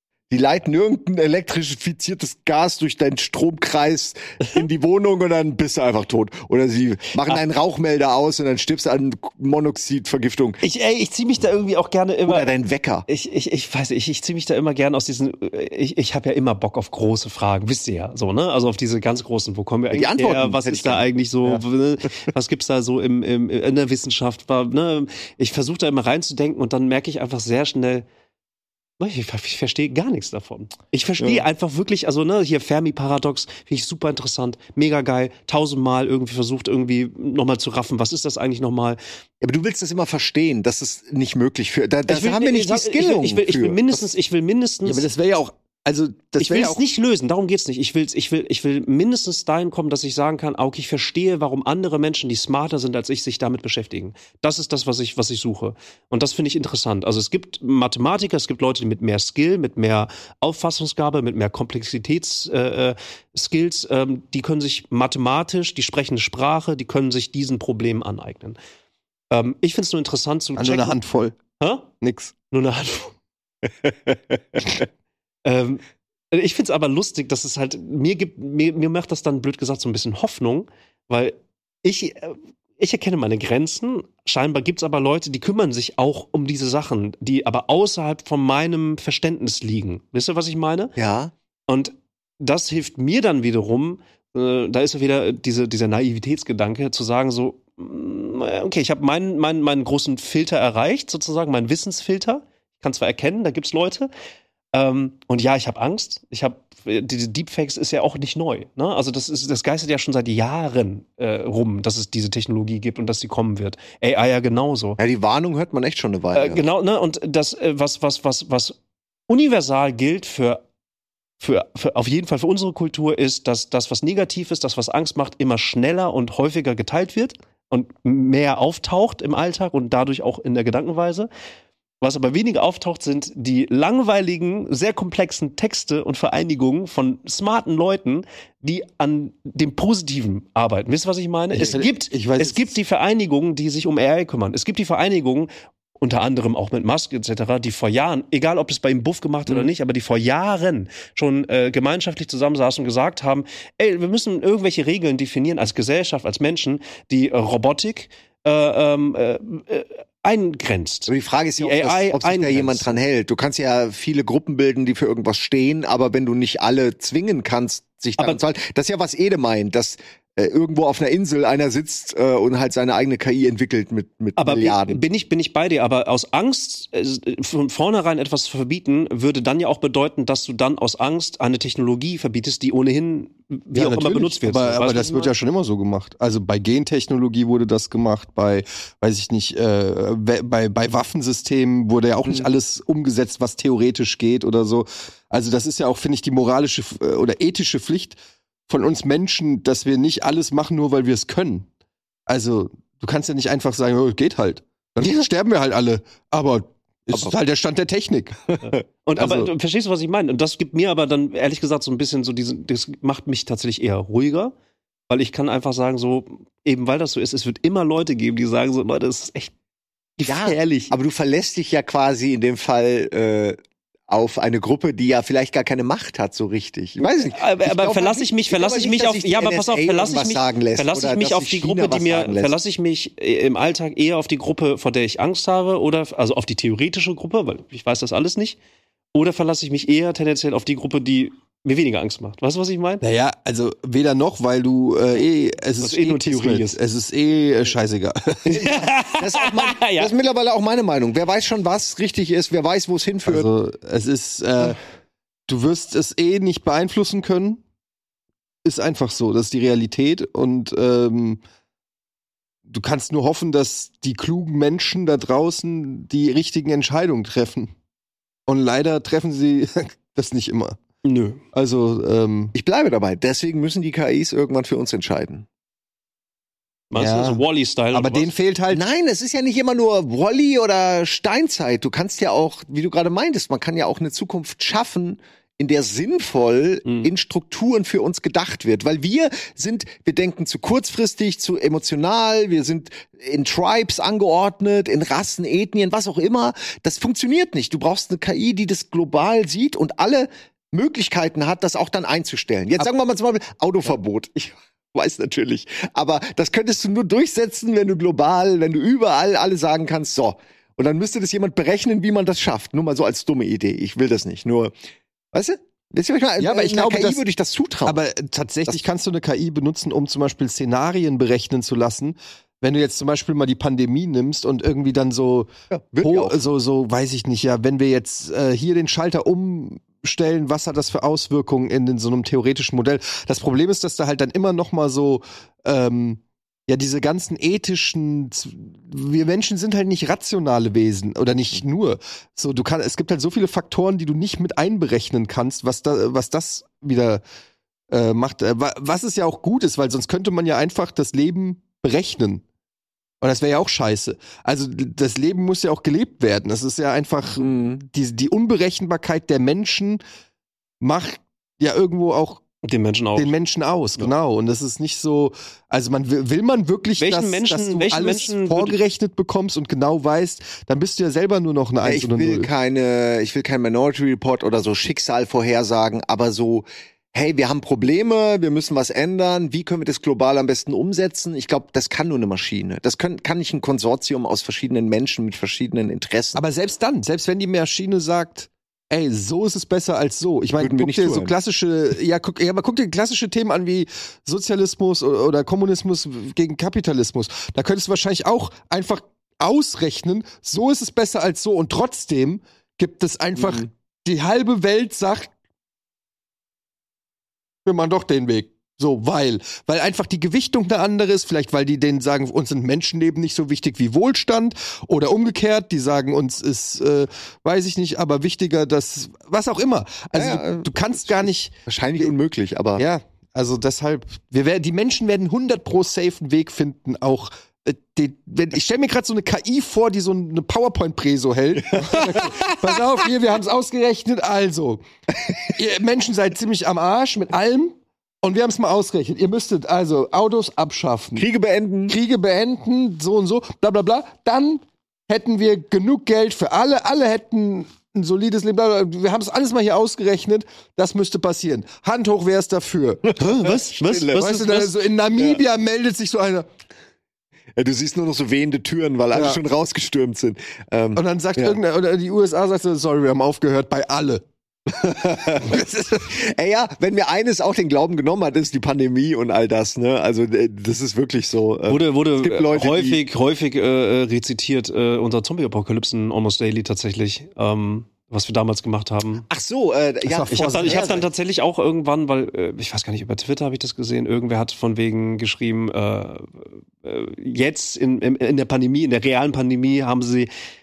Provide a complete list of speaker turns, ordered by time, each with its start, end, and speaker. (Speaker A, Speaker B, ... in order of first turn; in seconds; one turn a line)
Speaker A: 0.3-10.6
Speaker B: 10.6-12.5
Speaker A: 12.2-13.0
Speaker B: 13.1-28.1
Speaker A: 19.9-21.6
Speaker B: 29.0-39.0
Speaker A: 31.2-31.4
Speaker A: 39.4-44.1
Speaker B: 42.1-45.1
Speaker C: 44.8-46.8
Speaker B: 46.4-68.6
Speaker B: 69.3-71.0
Speaker C: 70.6-71.4
Speaker B: 71.6-71.9
Speaker C: 72.0-72.3
Speaker B: 72.5-73.1
Speaker B: 75.4-90.9
Speaker A: 91.0-91.3
Speaker B: 91.7-104.1
Speaker B: 104.7-115.0
Speaker A: 115.0-116.6
Speaker B: 116.3-118.8
Speaker B: 119.3-120.6
Speaker B: 121.4-131.3
Speaker B: 132.0-145.5
Speaker C: 141.5-142.8
Speaker B: 146.0-163.0
Speaker A: 161.1-175.0
Speaker B: 174.4-185.3
Speaker C: 183.7-198.2
Speaker C: 198.7-201.7
Speaker C: 202.3-208.4
Speaker B: 209.0-214.5
Speaker C: 209.2-209.5
Speaker B: 215.1-219.5
Speaker B: 220.2-220.9
Speaker A: 220.2-223.6
Speaker A: 224.1-232.5
Speaker B: 227.2-238.6
Speaker B: 239.1-243.0
Speaker C: 243.0-248.6
Speaker B: 245.8-246.8
Speaker A: 248.4-253.5
Speaker B: 248.5-250.1
Speaker C: 253.2-254.8
Speaker C: 255.5-257.6
Speaker C: 258.6-261.4
Speaker C: 262.7-267.7
Speaker C: 268.5-270.8
Speaker B: 271.0-271.4
Speaker C: 271.5-272.5
Speaker A: 272.5-275.4
Speaker B: 276.9-278.3
Speaker C: 276.9-278.8
Speaker A: 278.7-314.7
Speaker A: 315.3-318.0
Speaker C: 316.4-317.2
Speaker C: 317.8-325.5
Speaker A: 325.7-326.4
Speaker C: 326.0-347.2
Speaker C: 347.9-352.4
Speaker C: 353.2-360.0
Speaker A: 357.4-357.9
Speaker C: 360.8-362.4
Speaker B: 362.6-363.3
Speaker C: 363.2-372.5
Speaker B: 367.0-368.8
Speaker A: 371.8-386.4
Speaker C: 386.3-405.3
Speaker A: 390.6-391.3
Speaker A: 403.4-403.6
Speaker C: 407.6-422.1
Speaker A: 420.1-422.8
Speaker C: 422.8-434.8
Speaker A: 431.8-432.2
Speaker C: 435.4-441.2
Speaker A: 441.1-441.9
Speaker C: 441.9-453.5
Speaker A: 453.1-454.4
Speaker B: 453.2-454.7
Speaker C: 454.1-456.5
Speaker A: 457.6-461.6
Speaker C: 459.1-459.4
Speaker C: 460.9-464.2
Speaker A: 464.7-473.0
Speaker C: 465.2-466.1
Speaker B: 471.7-479.3
Speaker A: 479.3-481.1
Speaker C: 480.1-480.9
Speaker B: 480.3-490.3